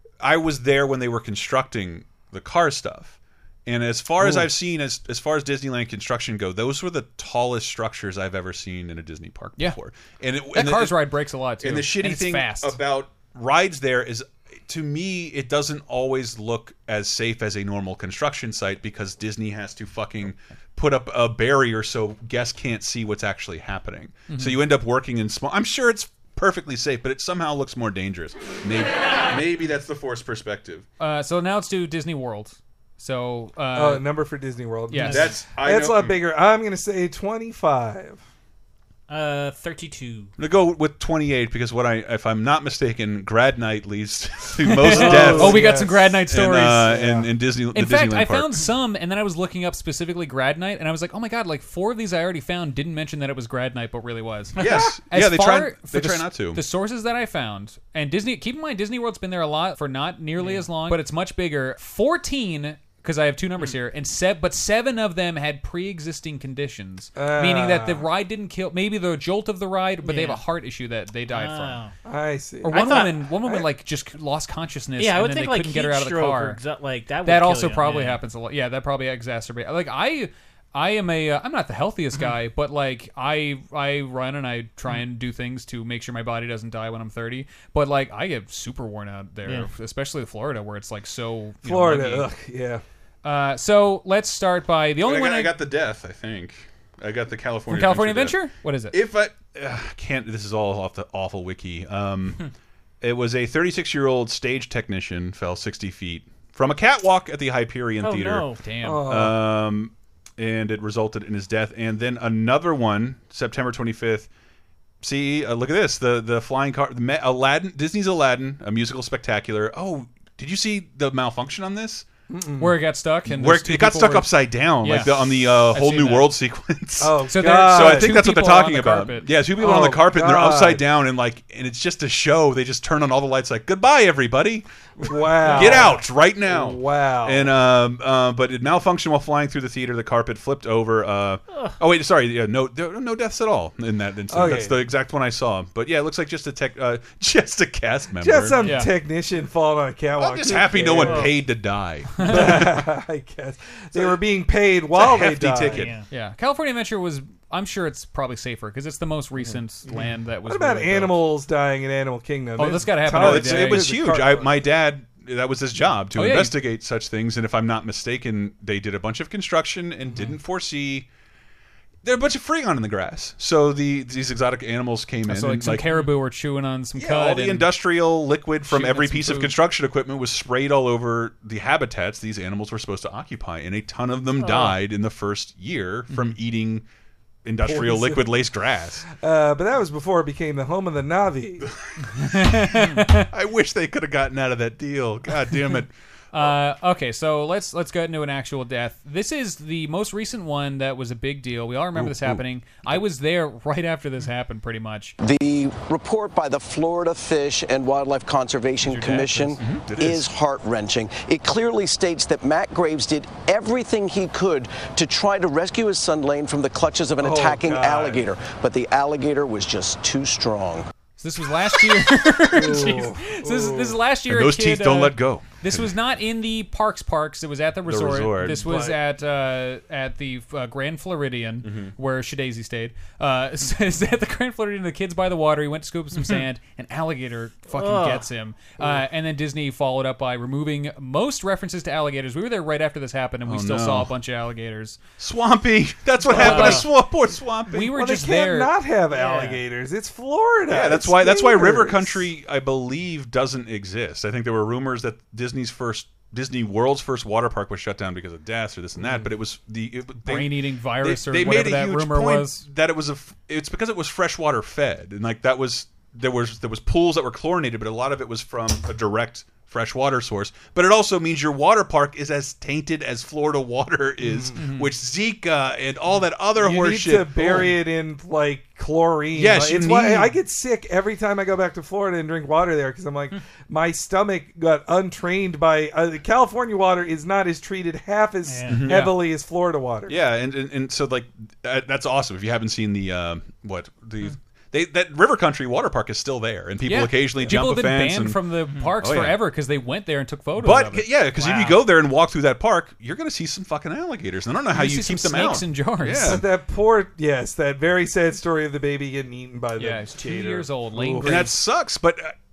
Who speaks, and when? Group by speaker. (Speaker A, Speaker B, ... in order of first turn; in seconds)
Speaker A: 0.2-11.1, 11.6-30.9, 35.0-36.2, 40.4-48.6, 54.6-56.6, 95.0-102.4, 103.0-114.3, 115.0-122.1, 123.3-148.7, 150.2-152.8, 154.9-155.9, 163.1-171.1, 172.0-175.9, 177.0-186.8, 187.4-189.1, 192.2-195.9, 201.9-202.4, 209.6-210.3, 224.3-225.9, 227.9-228.7, 231.6-231.9, 243.4-244.1, 245.2-247.9, 250.7-277.7, 279.4-280.4, 288.7-289.1, 290.1-299.4, 300.6-306.4, 311.2-312.4
Speaker B: 10.5-12.8, 24.3-24.6, 31.0-34.1, 34.9-35.3, 44.6-47.0, 47.7-71.8, 72.6-76.6, 77.2-92.3, 93.2-95.6, 97.7-99.0, 108.6-109.1, 122.6-126.3, 127.3-129.4, 148.6-148.9, 152.2-152.6, 156.1-161.2, 162.6-164.0, 166.1-166.6, 175.3-177.7, 178.7-179.6, 192.2-193.3, 196.3-205.2, 208.8-209.6, 221.2-245.0, 246.3-246.9, 247.7-248.7, 260.2-262.7, 274.6-274.9, 296.9-301.8, 304.7-306.4, 309.8-311.5
Speaker C: 33.8-38.2, 44.9-46.2, 46.9-47.3, 67.2-68.1, 72.1-73.7, 91.6-92.8, 108.8-109.4, 122.3-122.8, 127.0-128.2, 129.6-130.8, 135.0-137.5, 144.3-144.8, 148.2-151.3, 152.2-155.9, 160.5-164.6, 187.6-188.3, 189.1-191.7, 217.2-218.3, 222.5-224.0, 228.6-229.0, 246.4-246.8, 247.7-252.3, 276.6-290.2, 306.2-311.5
Speaker D: 39.1-40.3, 70.0-70.4, 71.3-71.9, 72.7-73.2, 75.0-78.2, 108.0-108.6, 135.6-135.9, 151.0-151.3, 155.7-156.1, 184.5-184.7, 237.7-238.2, 246.4-246.8, 249.1-249.6, 288.5-288.8
Speaker E: 205.2-220.9